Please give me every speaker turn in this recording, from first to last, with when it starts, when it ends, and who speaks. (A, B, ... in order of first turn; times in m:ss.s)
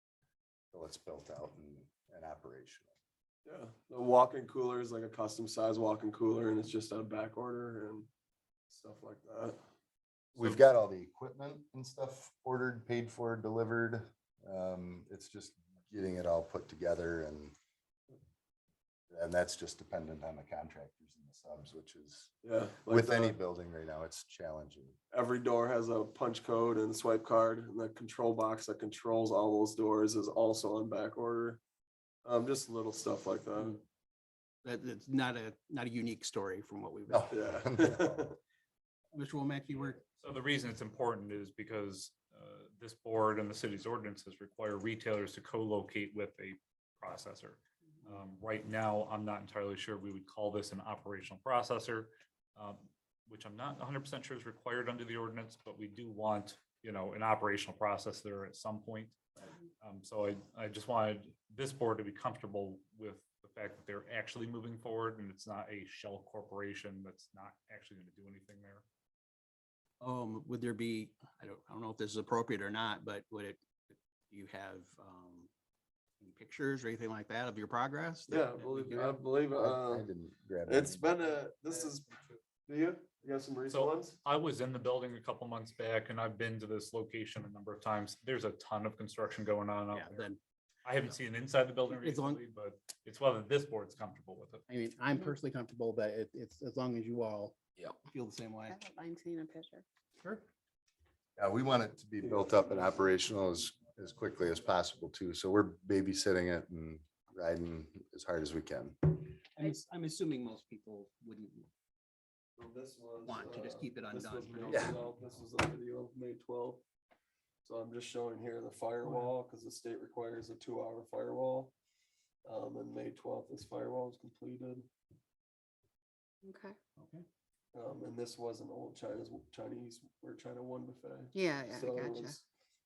0:00.7-0:02.9 A
0:03.4-0:08.1 B
0:08.7-0:09.6 B
0:10.3-0:17.5 A
0:19.1-0:22.3 A
0:22.4-0:23.4 B
0:22.9-0:25.0 A
0:25.1-0:31.6 B
0:32.2-0:33.8 B
0:34.6-0:37.3 C
0:37.1-0:38.3 A
0:37.3-0:38.4 B
0:39.1-0:40.0 C
0:40.2-0:59.2 D
0:59.8-1:08.8 D
1:10.0-1:13.6 C
1:14.3-1:15.5 C
1:16.2-1:19.1 C
1:18.3-1:20.1 B
1:18.9-1:21.0 A
1:20.6-1:24.2 B
1:23.7-1:30.3 D
1:29.9-1:30.4 C
1:30.8-1:34.6 D
1:31.8-1:32.4 C
1:34.7-1:38.8 C
1:38.7-1:39.8 E
1:41.4-1:49.1 A
1:49.2-1:51.7 C
1:52.6-1:56.8 B
1:53.2-1:55.1 C
1:57.6-2:01.7 B
1:59.0-1:59.3 C
2:02.4-2:04.9 B
2:06.4-2:06.8 E
2:07.0-2:07.2 C
2:07.7-2:12.4 B
2:11.3-2:12.4 E